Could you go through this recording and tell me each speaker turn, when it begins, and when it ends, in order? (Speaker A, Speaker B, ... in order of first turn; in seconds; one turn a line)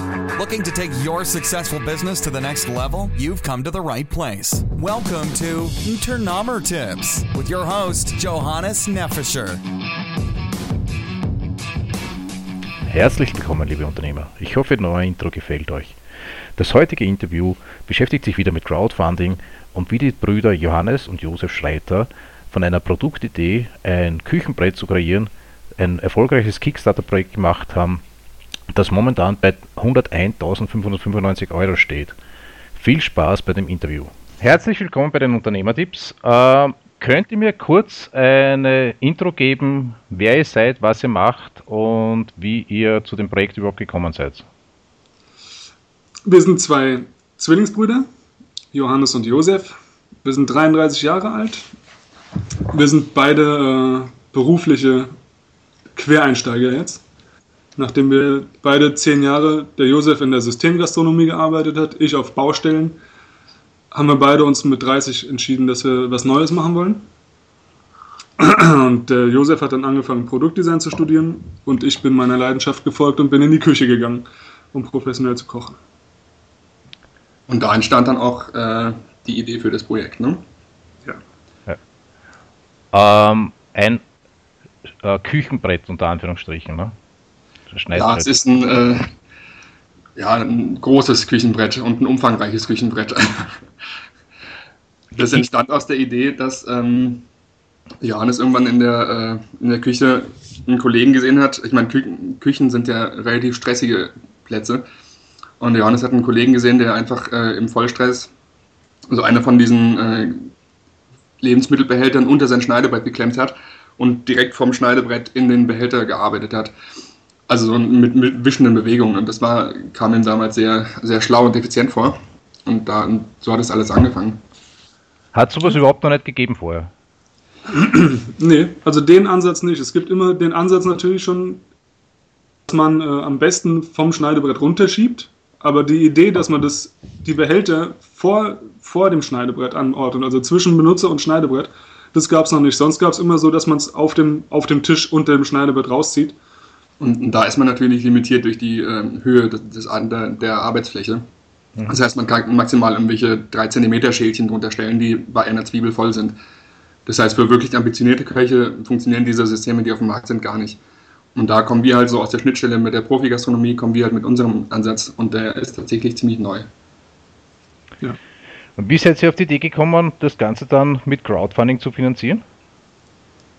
Speaker A: 0.4-9.6
Speaker B: 12.9-16.0
Speaker B: 16.6-28.0
Speaker B: 28.7-32.2
Speaker B: 32.8-44.5
Speaker C: 46.3-48.1
Speaker C: 48.7-51.7
Speaker C: 52.7-55.1
Speaker C: 55.9-57.0
Speaker C: 57.8-63.0
Speaker C: 63.9-67.0
Speaker C: 68.4-75.8
Speaker D: 77.5-80.4
Speaker B: 82.9-84.0
Speaker B: 85.0-86.9
Speaker B: 87.7-88.3
Speaker D: 87.9-89.1
Speaker D: 90.2-93.6
Speaker D: 95.1-97.3
Speaker D: 98.0-104.8
Speaker D: 105.6-108.3
Speaker D: 109.1-110.5
Speaker D: 111.4-116.7
Speaker D: 117.5-124.4
Speaker B: 125.3-126.9
Speaker C: 127.7-131.6
Speaker C: 132.7-146.3
Speaker D: 147.0-151.2
Speaker D: 151.9-156.4
Speaker D: 157.1-160.8
Speaker D: 161.3-166.7
Speaker B: 168.8-172.4